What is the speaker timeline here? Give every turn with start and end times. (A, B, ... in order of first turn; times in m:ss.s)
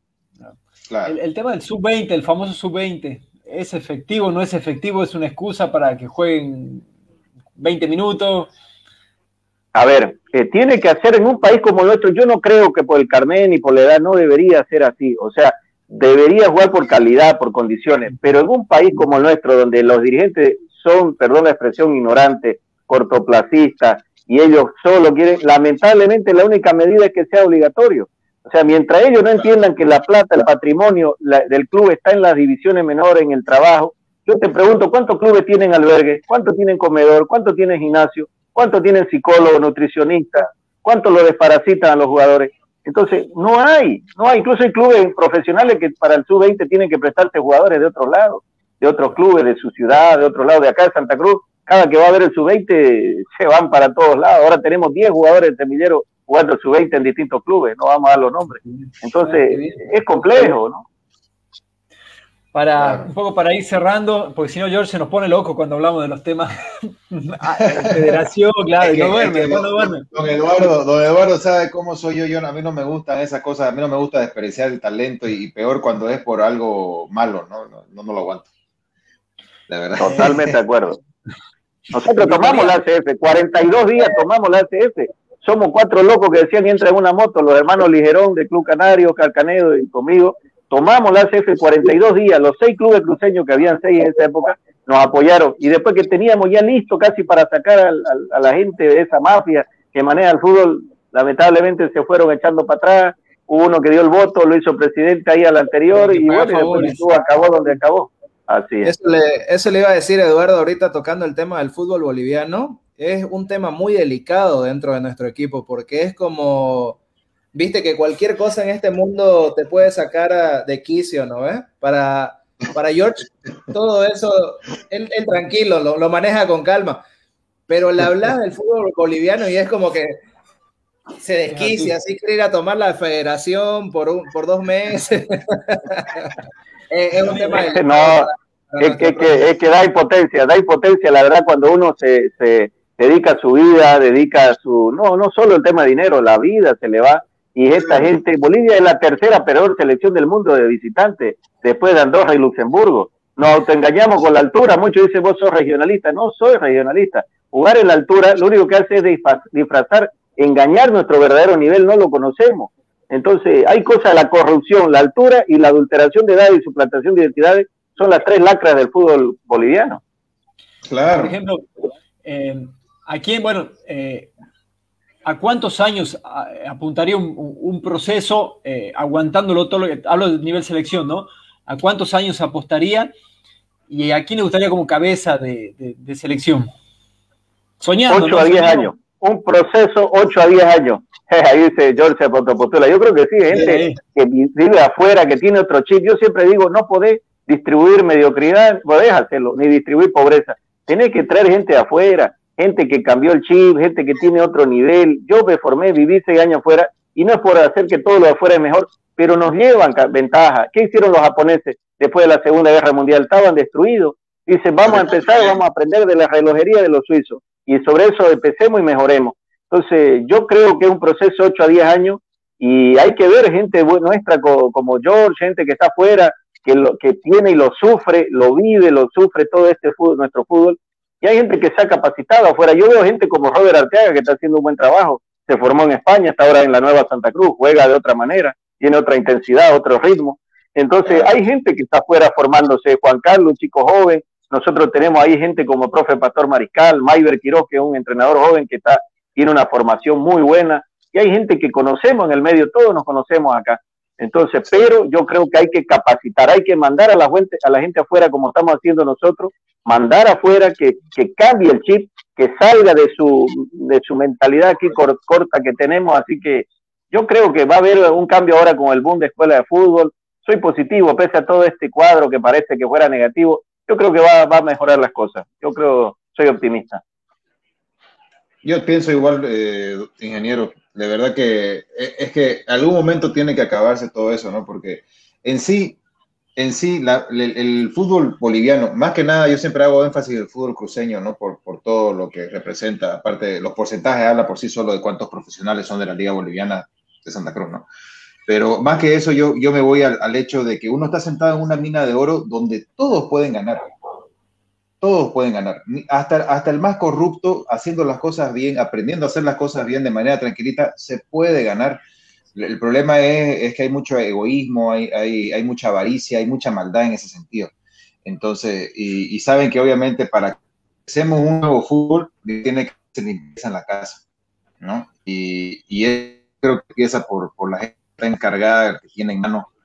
0:00.9-0:01.1 A
0:01.0-0:06.8 B
0:07.6-0:08.5 B
0:09.7-1:00.8 C
0:59.2-0:59.9 B
1:02.5-1:10.0 B
1:02.8-1:03.1 A
1:07.7-1:08.2 A
1:08.8-1:18.5 A
1:19.7-1:20.6 A
1:20.0-1:21.0 C
1:21.9-1:48.9 C
1:22.2-1:22.8 B
1:45.9-1:47.3 D
1:48.8-1:57.0 D
1:57.5-2:07.0 D
2:07.7-2:10.2 D
2:11.2-2:16.4 D
2:11.5-2:11.9 B
2:16.9-2:19.4 D
2:17.7-2:50.0 C
2:50.8-2:51.4 A
2:51.1-2:51.7 B
2:52.2-2:54.3 B
2:55.2-3:03.1 B
3:03.9-3:06.7 B
3:07.8-3:08.9 B
3:08.1-4:37.0 C
3:13.5-3:14.0 B
3:34.9-3:35.6 A
4:01.0-4:01.3 A
4:38.6-4:46.0 A
4:46.6-4:57.9 A
4:58.5-5:03.9 A
5:05.0-5:12.0 A
5:12.5-5:17.7 A
5:18.2-5:20.5 A
5:21.1-5:24.2 A
5:24.8-5:29.7 A